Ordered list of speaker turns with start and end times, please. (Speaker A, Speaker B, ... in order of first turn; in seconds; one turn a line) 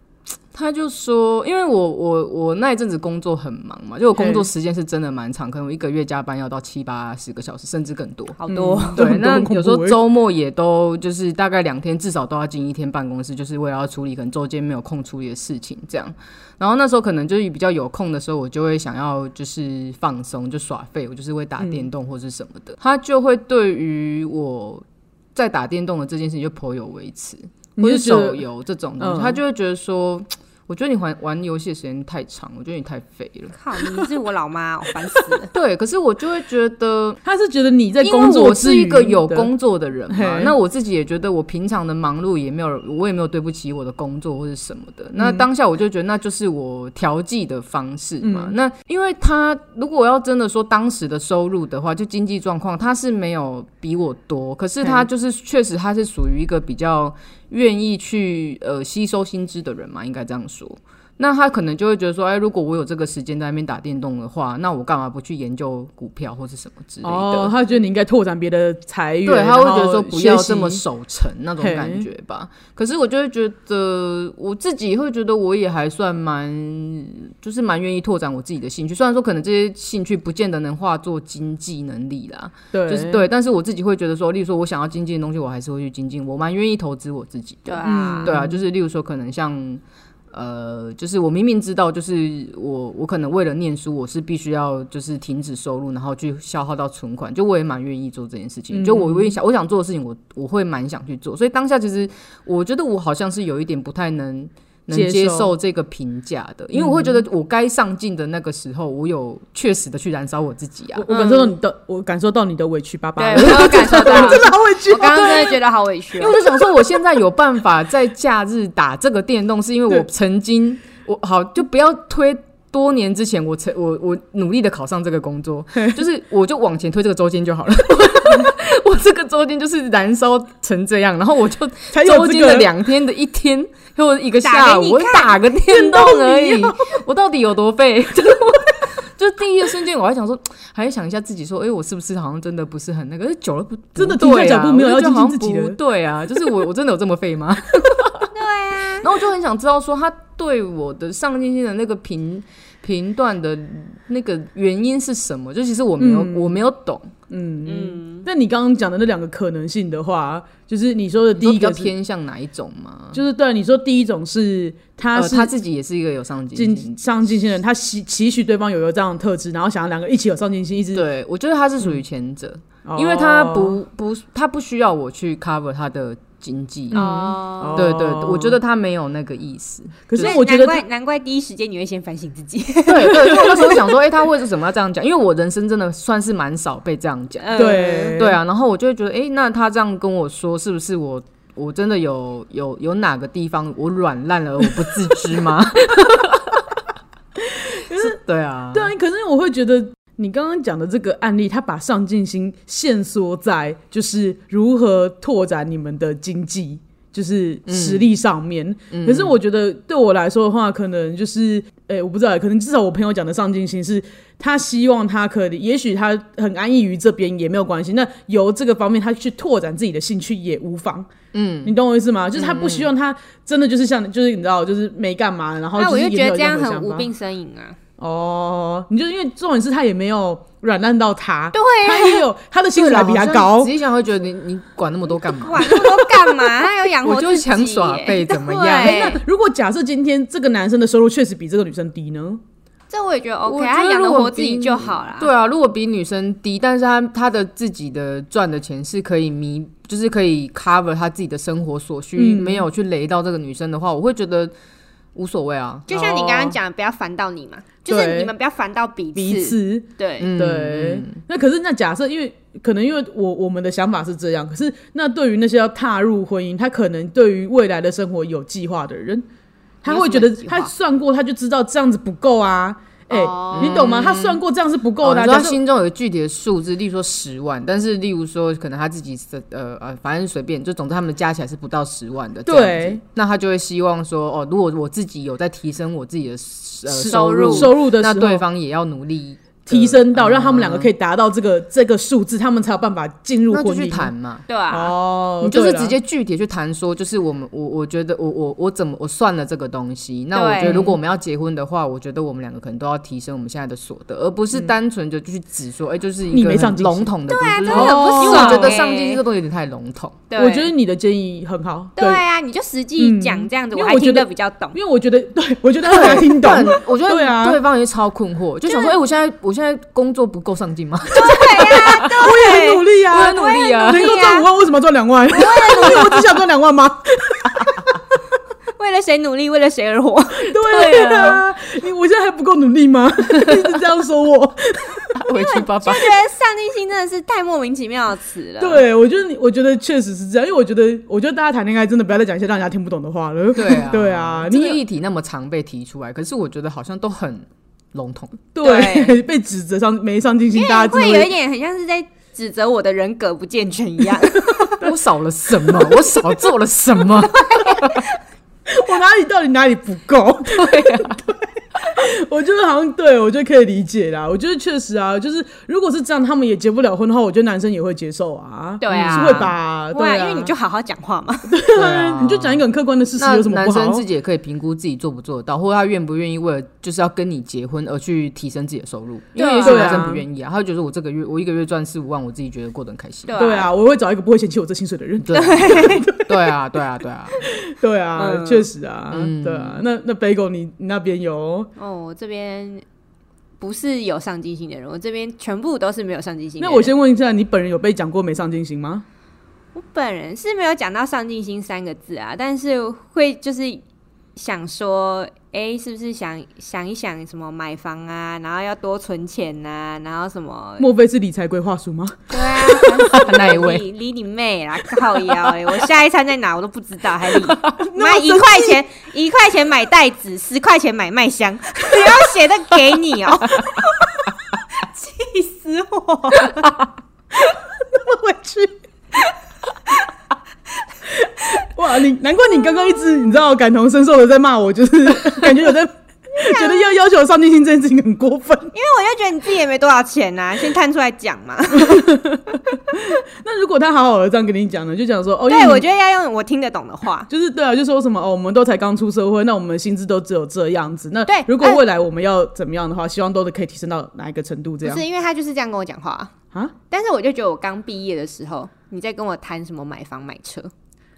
Speaker A: 0.5-8.4
Speaker B: 4.1-4.5
Speaker C: 8.4-9.0
Speaker B: 8.5-10.0
Speaker A: 8.9-34.1
Speaker B: 21.6-21.9
Speaker B: 27.8-28.4
Speaker B: 29.0-29.4
Speaker C: 33.6-35.5
Speaker A: 35.5-37.2
Speaker B: 37.2-39.5
Speaker A: 38.0-67.5
Speaker B: 40.1-40.5
Speaker B: 45.2-45.4
Speaker B: 48.2-48.5
Speaker B: 54.8-55.1
Speaker B: 67.0-70.8
Speaker A: 69.2-111.0
Speaker B: 71.6-72.1
Speaker B: 82.7-83.2
Speaker C: 87.7-88.3
Speaker B: 87.8-88.6
Speaker B: 98.7-99.3
Speaker B: 104.9-105.5
Speaker B: 106.7-107.2
Speaker B: 110.9-115.6
Speaker C: 111.1-111.5
Speaker C: 113.2-116.4
Speaker A: 113.4-114.5
Speaker A: 116.2-148.3
Speaker B: 116.3-117.0
Speaker B: 125.7-126.0
Speaker B: 131.9-132.7
Speaker C: 134.4-136.2
Speaker B: 135.7-136.7
Speaker B: 143.9-145.8
Speaker C: 148.3-149.1
Speaker A: 149.0-157.1
Speaker B: 156.0-156.6
Speaker B: 157.3-161.9
Speaker C: 157.7-158.2
Speaker A: 161.3-163.2
Speaker B: 163.1-165.5
Speaker A: 165.1-166.9
Speaker B: 166.5-171.0
Speaker A: 170.9-177.1
Speaker B: 172.8-173.8
Speaker C: 176.9-177.8
Speaker B: 176.9-178.5
Speaker A: 177.7-180.4
Speaker B: 180.1-180.8
Speaker C: 180.2-183.9
Speaker A: 182.9-196.8
Speaker C: 187.4-188.2
Speaker B: 187.6-188.4
Speaker B: 197.4-198.2
Speaker A: 197.9-198.9
Speaker B: 198.7-221.1
Speaker A: 207.7-208.1
Speaker A: 208.9-209.4
Speaker A: 221.3-221.7
Speaker B: 221.6-227.1
Speaker A: 222.3-222.9
Speaker C: 225.8-227.8
Speaker B: 228.0-233.7
Speaker C: 231.5-232.2
Speaker A: 232.7-239.1
Speaker C: 235.2-239.2
Speaker B: 238.8-242.4
Speaker C: 242.9-245.3
Speaker A: 243.4-254.5
Speaker B: 252.2-252.7
Speaker A: 255.1-255.8
Speaker C: 255.9-260.3
Speaker B: 255.9-256.6
Speaker B: 257.9-258.3
Speaker B: 259.1-269.2
Speaker A: 260.2-261.1
Speaker C: 269.8-270.7
Speaker B: 269.8-275.6
Speaker C: 273.1-273.9
Speaker A: 273.5-274.4
Speaker A: 275.0-290.9
Speaker B: 282.4-283.0
Speaker B: 286.9-288.4
Speaker C: 287.1-287.8
Speaker B: 289.7-294.1
Speaker A: 293.5-294.4
Speaker C: 294.5-294.9
Speaker B: 294.7-295.9
Speaker A: 295.4-310.2
Speaker C: 300.3-300.9
Speaker B: 300.6-300.9
Speaker B: 306.3-307.1
Speaker C: 307.3-309.2
Speaker B: 307.6-308.8
Speaker C: 310.3-310.7
Speaker B: 310.4-312.2
Speaker C: 312.0-314.8
Speaker B: 313.0-317.6
Speaker A: 315.8-322.2
Speaker C: 318.7-319.0
Speaker C: 321.1-324.5
Speaker B: 321.7-328.0
Speaker A: 323.1-324.2
Speaker C: 325.3-326.2
Speaker C: 328.8-331.4
Speaker B: 330.4-335.2
Speaker A: 330.7-331.0
Speaker A: 335.2-336.1
Speaker C: 335.3-338.8
Speaker B: 338.6-344.8
Speaker A: 343.5-348.4
Speaker B: 348.5-351.3
Speaker C: 348.6-349.2
Speaker C: 350.5-354.8
Speaker B: 354.4-354.9
Speaker A: 354.8-358.1
Speaker C: 357.1-358.2
Speaker B: 358.7-370.5
Speaker A: 360.5-361.2
Speaker C: 368.8-371.5
Speaker A: 368.9-369.5
Speaker B: 371.5-374.0
Speaker A: 371.7-372.6
Speaker A: 373.2-383.4
Speaker C: 379.4-380.1
Speaker B: 379.6-380.2
Speaker C: 383.3-383.7
Speaker B: 383.4-386.5
Speaker A: 385.2-387.4
Speaker C: 385.3-386.1
Speaker B: 387.4-391.7
Speaker C: 388.2-388.7
Speaker A: 389.1-389.8
Speaker C: 391.8-392.8
Speaker C: 393.6-396.9
Speaker B: 396.6-399.0
Speaker C: 399.7-403.8
Speaker C: 404.4-410.9
Speaker B: 410.8-412.3
Speaker C: 412.3-424.1
Speaker A: 412.6-413.8
Speaker B: 417.7-418.8
Speaker C: 424.8-426.7
Speaker B: 427.9-428.7
Speaker B: 431.6-438.7
Speaker C: 436.4-436.9
Speaker C: 438.7-442.1
Speaker B: 441.7-445.8
Speaker C: 445.5-447.3
Speaker B: 447.3-455.0
Speaker C: 451.3-451.8
Speaker C: 454.8-456.3
Speaker C: 456.9-460.7